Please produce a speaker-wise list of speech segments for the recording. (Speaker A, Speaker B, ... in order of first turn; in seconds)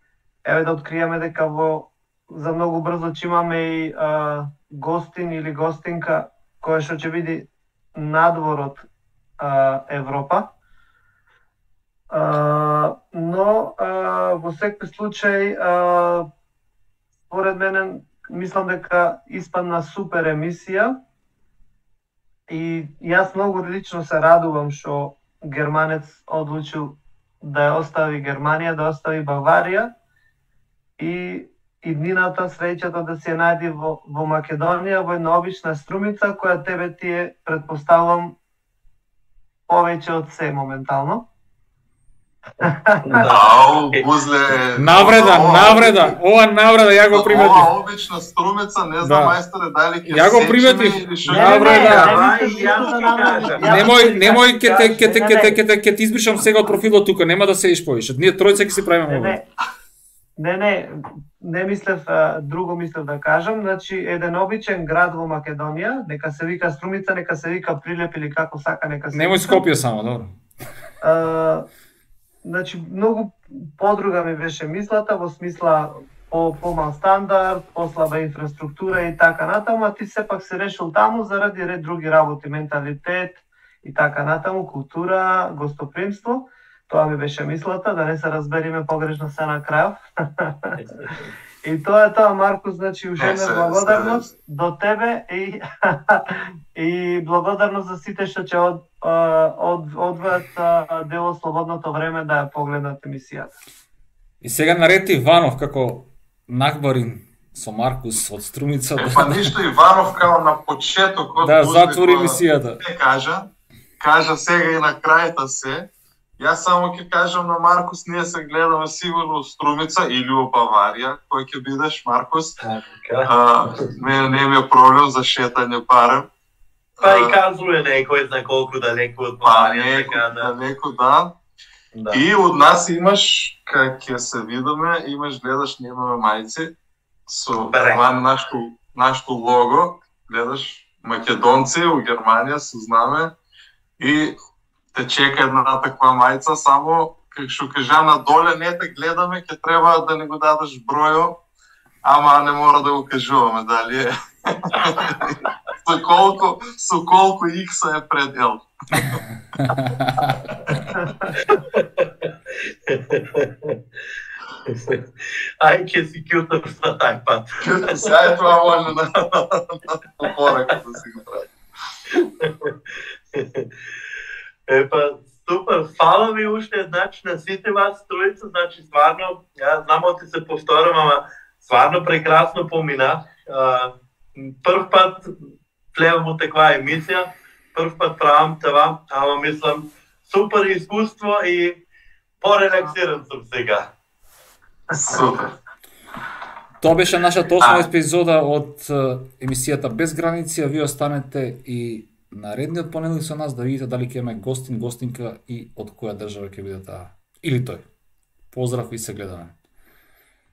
Speaker A: 0.4-8.9, 9.4-10.5, 12.1-16.3, 17.3-21.0, 22.5-29.9, 31.0-38.4, 39.7-41.2, 42.6-43.3, 51.3-55.6, 59.1-59.4, 60.4-69.6, 71.0-71.7, 72.4-90.8, 91.6-103.5, 194.9-195.2
Speaker B: 43.1-44.1, 51.9-53.8, 122.6-123.8, 127.0-130.5, 131.9-132.2, 137.6-138.1, 161.4-163.8, 164.7-168.1, 172.1-172.8, 173.3-173.7, 174.7-191.8, 192.4-193.9
Speaker C: 43.3-46.2, 47.1-52.0, 93.2-94.3, 109.0-122.6, 123.2-126.3, 127.0-127.4, 129.4-131.3, 132.1-136.7, 137.3-143.3, 144.0-144.4, 144.9-151.4, 152.0-159.2, 167.6-171.5, 195.0-195.6, 197.6-197.9
Speaker D: 44.8-47.7, 49.0-49.4, 50.1-52.3, 53.6-59.4, 69.1-70.3, 104.4-109.5, 111.4-112.8, 159.7-160.3, 196.8-207.9, 208.5-209.5